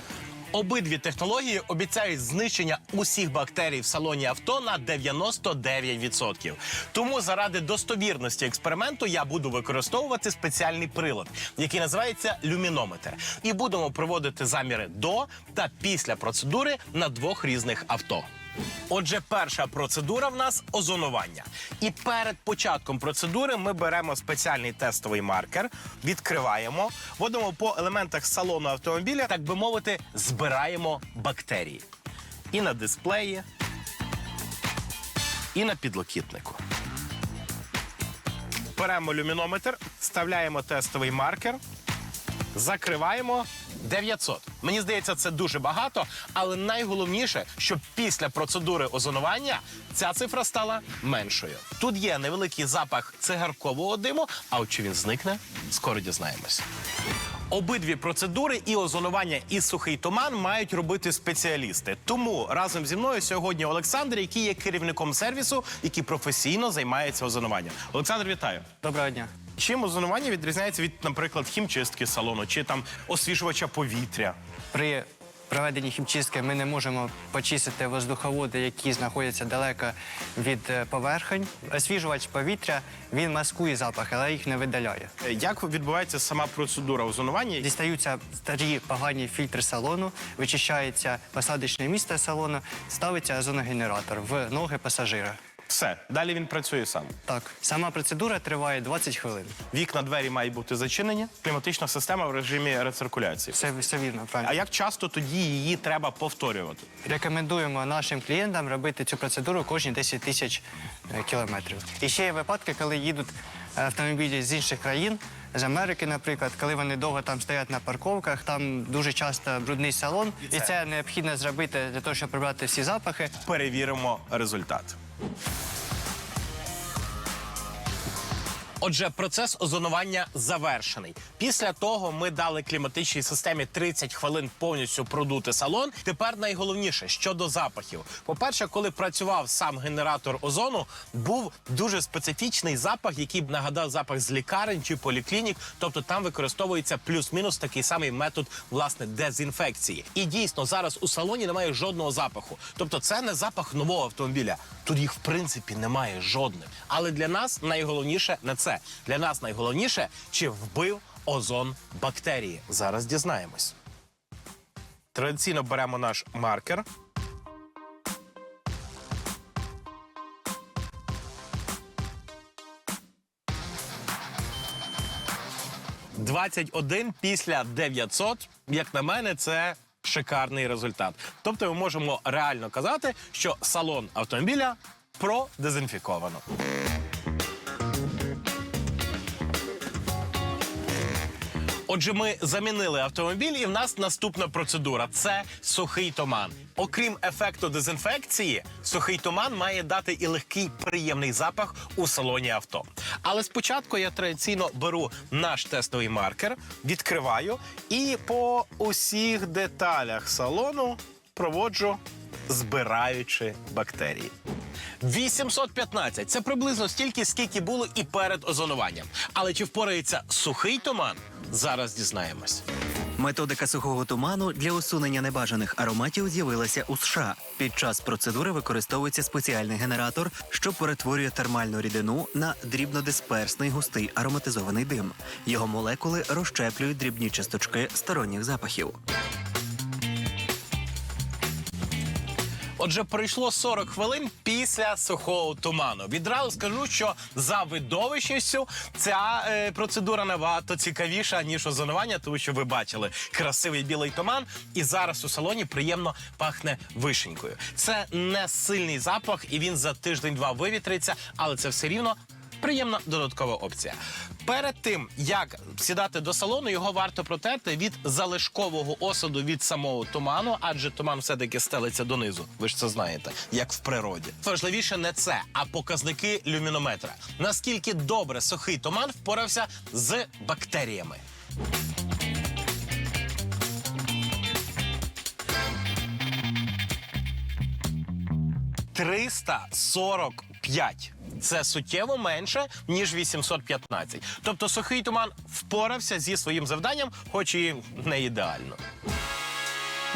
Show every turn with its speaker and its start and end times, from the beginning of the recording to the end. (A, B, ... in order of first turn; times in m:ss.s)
0:00.5-0:18.3 A
0:18.9-0:31.9 A
0:32.5-0:33.4 A
0:35.5-0:36.6 A
0:38.7-0:41.6 A
0:42.5-0:56.6 A
0:57.5-1:08.7 A
1:08.8-1:09.3 B
1:09.6-1:14.4 A
1:14.7-1:25.1 B
1:25.2-1:27.7 A
1:27.6-1:35.4 B
1:35.7-1:37.1 A
1:37.2-1:39.5 B
1:39.7-1:43.6 A
1:43.5-1:44.6 B
1:44.4-1:46.8 A
1:47.0-2:03.3 B
2:03.4-2:05.0 A
2:08.8-2:43.7 A
2:45.1-2:46.8 A
2:56.1-3:06.4 A
3:11.9-3:34.3 A
3:35.0-3:42.6 A
3:43.2-3:59.0 C
4:02.8-4:41.2 A
4:48.9-4:58.8 A